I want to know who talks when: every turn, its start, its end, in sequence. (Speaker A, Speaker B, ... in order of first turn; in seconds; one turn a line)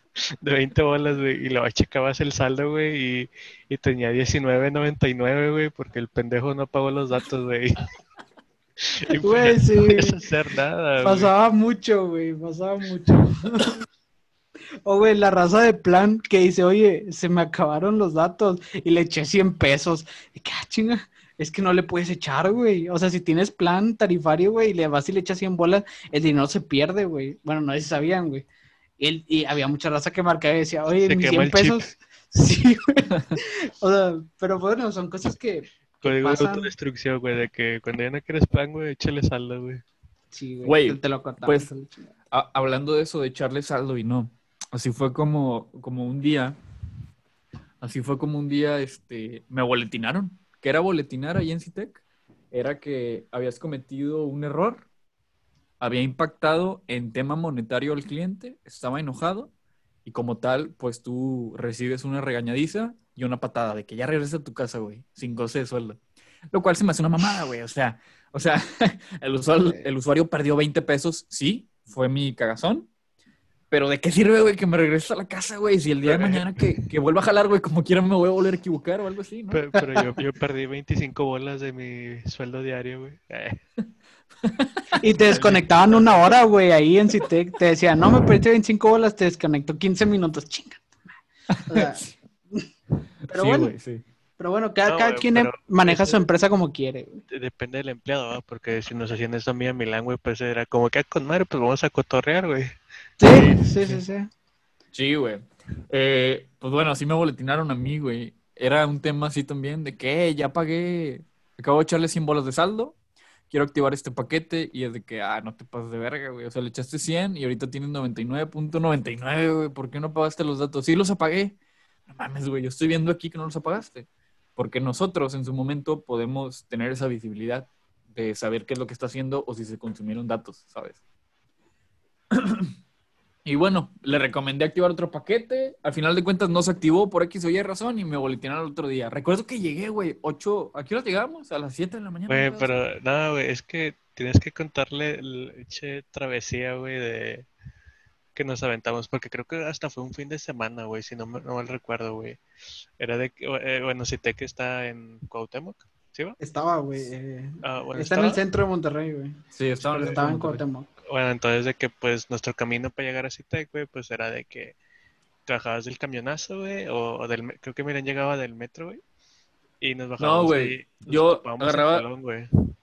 Speaker A: 0.4-7.8
Speaker A: 8.9-11.3
Speaker B: 9.2-10.2
Speaker B: 11.0-13.8
Speaker B: 14.8-28.5
Speaker B: 29.0-36.7
Speaker A: 31.1-32.0
Speaker A: 36.0-39.8
Speaker B: 40.3-42.1
Speaker C: 40.6-41.7
Speaker C: 42.3-46.6
Speaker C: 47.8-54.9
Speaker C: 55.8-59.5
Speaker C: 60.0-66.0
Speaker C: 66.5-72.9
Speaker C: 73.7-79.6
Speaker A: 76.0-76.9
Speaker A: 79.5-83.6
Speaker C: 84.4-84.7
Speaker B: 85.0-90.9
Speaker A: 85.2-86.3
Speaker C: 91.5-92.2
Speaker B: 91.7-92.7
Speaker C: 93.2-94.0
Speaker B: 93.3-93.7
Speaker B: 94.4-97.2
Speaker A: 94.9-96.2
Speaker A: 97.3-102.8
Speaker B: 103.2-104.3
Speaker C: 103.2-103.8
Speaker C: 104.9-113.0
Speaker C: 113.5-121.6
Speaker C: 122.1-131.0
Speaker C: 132.3-132.7
Speaker C: 133.4-142.8
Speaker A: 142.3-147.5
Speaker A: 148.3-152.4
Speaker A: 153.0-156.4
Speaker B: 156.4-160.9
Speaker A: 157.6-158.4
Speaker C: 159.5-160.6
Speaker A: 161.0-164.8
Speaker A: 165.5-169.0
Speaker A: 169.8-172.5
Speaker C: 170.2-172.1